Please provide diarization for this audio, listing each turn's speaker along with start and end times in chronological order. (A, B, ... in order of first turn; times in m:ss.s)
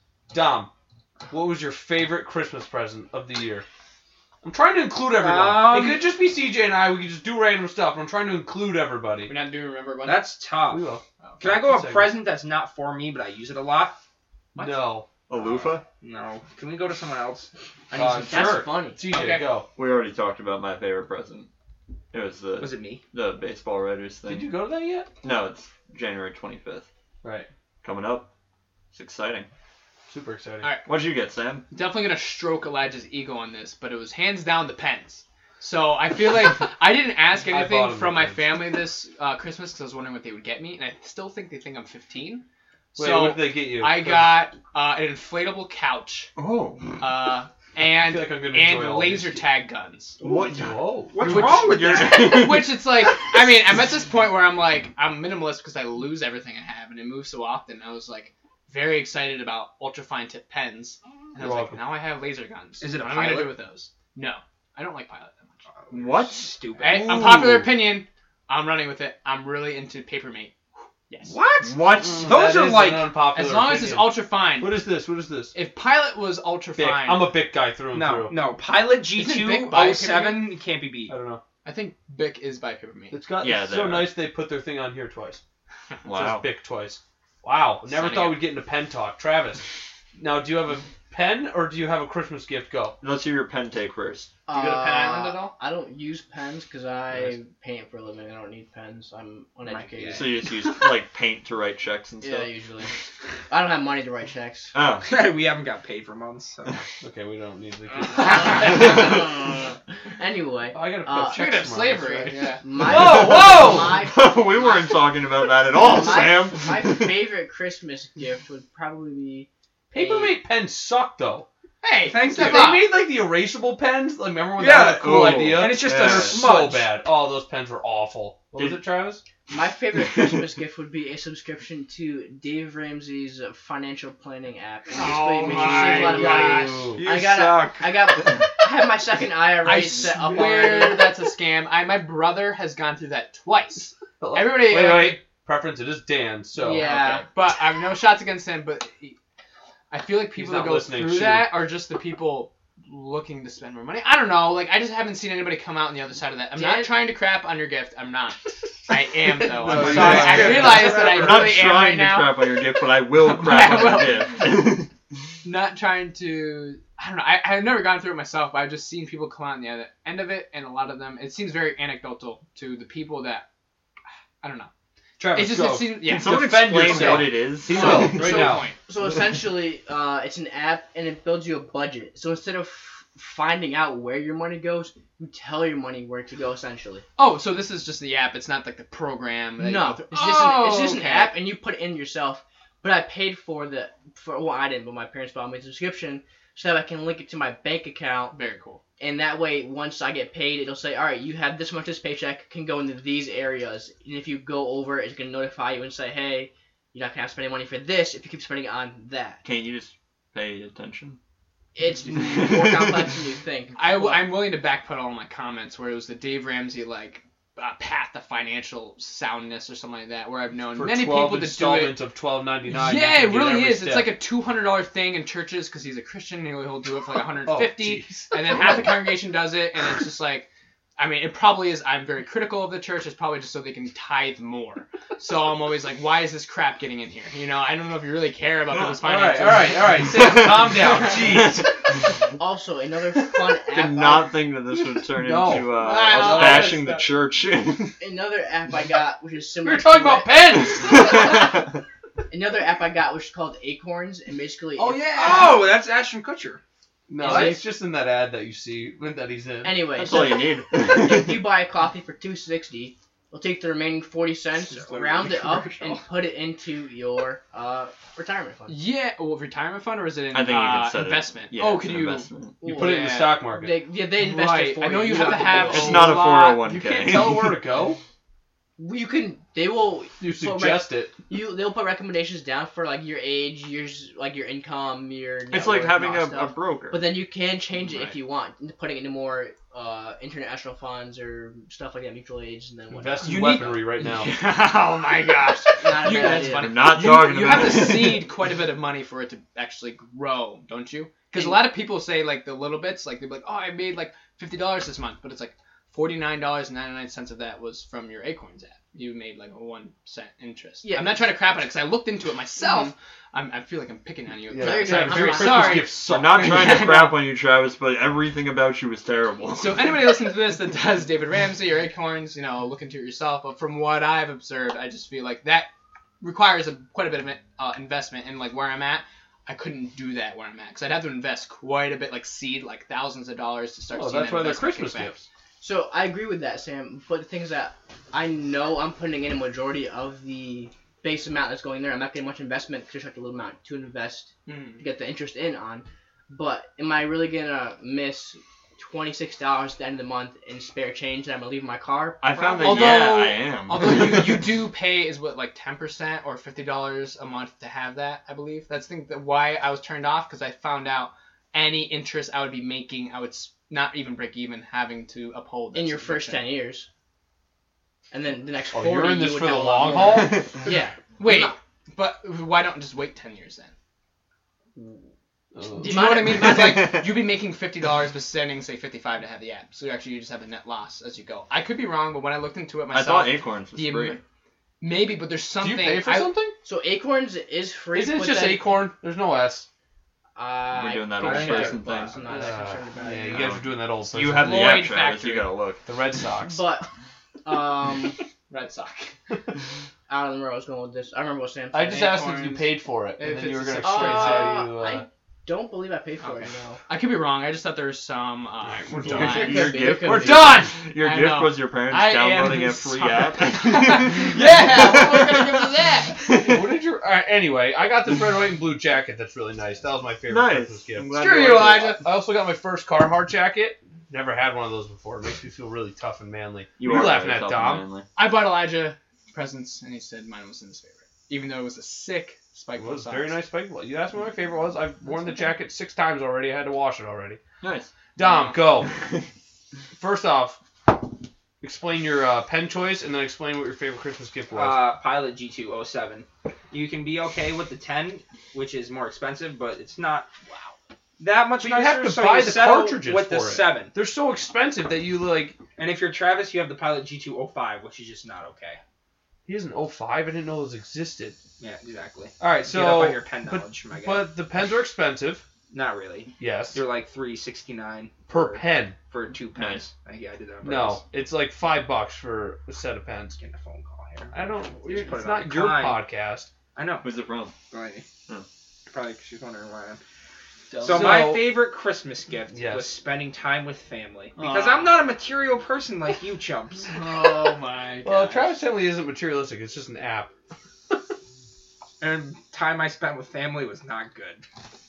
0:00.3-0:00.7 A
0:01.3-0:03.6 A
0:04.4-0:09.3 A
0:05.1-0:06.1 B
0:09.2-0:10.3 C
0:10.0-0:10.8 B
0:10.7-0:12.1 A
0:11.4-0:14.0 B
0:14.6-0:15.1 A
0:15.3-0:15.8 D
0:16.0-0:18.7 B
0:17.9-0:19.6 A
0:18.2-0:19.0 E
0:19.1-0:19.5 C
0:19.8-0:21.5 D
0:22.1-0:24.5 D
0:22.6-0:23.0 B
0:24.2-0:25.1 A
0:25.2-0:26.8 D
0:27.2-0:27.5 A
0:27.8-0:28.3 D
0:28.9-0:29.5 D
0:30.1-0:30.7 A
0:30.8-0:31.6 D
0:31.7-0:46.3 C
0:37.4-0:38.6 A
0:43.0-0:44.4 A
0:46.4-0:47.0 D
0:47.0-0:50.2 C
0:48.0-0:49.5 A
0:50.2-0:50.5 B
0:50.2-0:52.0 A
0:50.2-0:52.8 D
0:51.1-0:52.6 B
0:51.7-1:05.7 C
1:01.4-1:01.8 A
1:02.8-1:03.6 B
1:05.8-1:07.1 B
1:05.9-1:06.6 D
1:06.8-1:10.5 C
1:06.9-1:07.9 A
1:11.1-1:11.3 C
1:11.2-1:13.1 B
1:11.6-1:12.3 D
1:12.0-1:15.5 A
1:13.2-1:14.9 C
1:15.5-1:17.4 C
1:16.7-1:18.3 A
1:17.9-1:21.1 B
1:19.1-1:20.6 C
1:21.1-1:21.4 A
1:21.6-1:23.2 C
1:23.1-1:25.4 A
1:23.4-1:24.1 D
1:26.0-1:26.4 D
1:26.1-1:29.6 A
1:27.8-1:28.4 C
1:30.2-1:33.0 A
1:33.0-1:34.3 D
1:34.5-1:40.4 E
1:34.5-1:35.5 A
1:37.1-1:37.4 A
1:39.6-1:40.3 B
1:40.1-1:42.5 D
1:42.2-1:42.9 E
1:43.5-1:44.7 E
1:44.7-1:45.1 D
1:45.0-1:46.8 B
1:47.0-1:49.0 A
1:48.2-1:54.8 E
1:50.7-1:54.1 A
1:51.2-1:52.6 C
1:52.9-1:57.1 D
1:55.7-2:00.4 E
1:59.9-2:01.5 A
2:01.8-2:02.9 C
2:02.0-2:02.8 B
2:02.3-2:09.2 A
2:04.6-2:06.9 B
2:05.0-2:06.4 D
2:08.6-2:08.8 D
2:09.5-2:21.2 E
2:10.0-2:10.4 D
2:15.0-2:17.0 A
2:15.7-2:16.5 D
2:16.1-2:18.0 B
2:19.6-2:25.2 C
2:24.2-2:26.9 A
2:26.6-2:27.3 E
2:26.8-2:29.2 C
2:29.9-2:44.3 C
2:30.3-2:31.5 A
2:36.5-2:37.1 E
2:39.3-2:40.7 A
2:39.6-2:41.5 B
2:39.7-2:44.9 D
2:45.4-2:53.5 C
2:54.4-2:54.7 C
2:55.2-2:58.6 A
2:55.3-2:58.8 C
2:56.0-2:58.6 D
2:57.7-3:07.0 E
2:58.2-2:58.6 B
3:07.2-3:11.4 C
3:09.6-3:18.4 E
3:18.3-3:18.8 C
3:19.0-3:29.4 E
3:29.4-3:31.2 D
3:31.7-3:34.4 E
3:32.1-3:33.2 D
3:33.8-3:42.0 C
3:40.7-3:44.2 A
3:42.7-3:59.9 C
3:47.4-3:49.0 A
3:59.0-4:01.7 A
4:00.1-4:00.6 D
4:01.2-4:01.6 D
4:02.3-4:04.4 E
4:03.7-4:08.0 D
4:05.1-4:06.7 A
4:05.6-4:06.8 E
4:05.8-4:07.1 C
4:08.0-4:11.4 E
4:09.6-4:11.2 A
4:11.1-4:11.4 D
4:12.3-4:15.4 E
4:14.8-4:15.7 C
4:15.1-4:16.6 B
4:17.1-4:20.1 A
4:17.2-4:17.6 E
4:19.6-4:28.9 E
4:19.9-4:21.5 D
4:24.5-4:26.0 B
4:28.7-4:33.4 C
4:30.3-4:32.6 D
4:32.6-4:36.1 E
4:32.6-4:33.8 A
4:34.0-4:36.6 C
4:35.2-4:38.0 A
4:35.6-4:37.6 D
4:38.8-4:53.7 E
4:40.2-4:41.1 A
4:45.5-4:47.1 D
4:47.8-4:48.2 D
4:52.9-4:54.3 A
4:53.2-5:17.3 C
4:55.8-4:57.0 E
4:56.4-4:58.4 D
5:01.3-5:01.7 E
5:10.8-5:11.4 E
5:14.5-5:16.8 A
5:14.5-5:15.9 E
5:16.1-5:20.3 D
5:19.5-5:35.2 C
5:33.9-5:35.3 A
5:35.6-5:53.1 E
5:44.4-5:44.8 C
5:52.2-5:54.6 D
5:52.5-6:06.5 C
6:05.7-6:06.9 E
6:08.1-6:11.5 E
6:08.7-6:10.4 A
6:10.1-6:10.6 D
6:10.6-6:13.7 C
6:15.5-6:16.1 A
6:15.8-6:17.0 E
6:15.8-6:24.2 C
6:22.9-6:24.2 D
6:24.8-6:26.4 C
6:25.6-6:26.6 A
6:26.6-6:28.8 E
6:27.9-6:29.7 A
6:30.4-6:33.6 E
6:30.7-6:32.2 D
6:31.3-6:31.7 A
6:31.3-6:31.7 C
6:32.2-6:35.0 A
6:33.3-6:35.8 D
6:34.3-6:35.4 C
6:35.8-6:36.6 A
6:36.4-6:36.9 E
6:37.4-6:38.2 E
6:38.5-6:39.1 C
6:40.1-6:42.1 E
6:41.7-6:45.0 A
6:41.9-6:44.7 C
6:43.8-6:46.8 E
6:46.2-6:49.8 C
6:48.7-6:50.7 A
6:49.0-6:55.6 D
6:49.0-6:50.6 E
6:50.3-6:56.1 C
6:54.4-6:55.9 E
6:56.2-6:56.8 D
6:56.4-7:01.1 A
7:00.3-7:02.0 D
7:01.1-7:02.0 C
7:01.9-7:07.8 A
7:06.8-7:08.1 D
7:08.1-7:13.4 C
7:12.8-7:17.4 A
7:17.6-7:17.9 D
7:18.2-7:18.9 A
7:18.2-7:18.5 C
7:19.9-7:20.6 A
7:21.6-7:24.8 A
7:24.5-7:30.3 B
7:30.5-7:30.7 C
7:31.2-7:33.9 B
7:31.6-7:35.6 A
7:35.8-7:38.8 B
7:39.4-7:41.4 A
7:41.6-7:44.4 B
7:42.4-7:45.4 A
7:45.7-7:51.0 B
7:46.4-7:46.8 A
7:48.3-7:49.0 A
7:49.5-7:49.8 D
7:50.6-7:53.4 A
7:53.4-7:56.0 B
7:54.3-7:56.5 A
7:56.7-7:57.1 B
7:57.0-7:57.5 D
7:57.7-7:58.0 B
7:58.9-8:00.0 B
8:00.7-8:01.3 C
8:00.8-8:06.9 B
8:00.9-8:01.6 A
8:02.5-8:02.9 A
8:04.4-8:05.0 C
8:06.9-8:08.6 C
8:08.0-8:10.3 A
8:12.0-8:14.4 B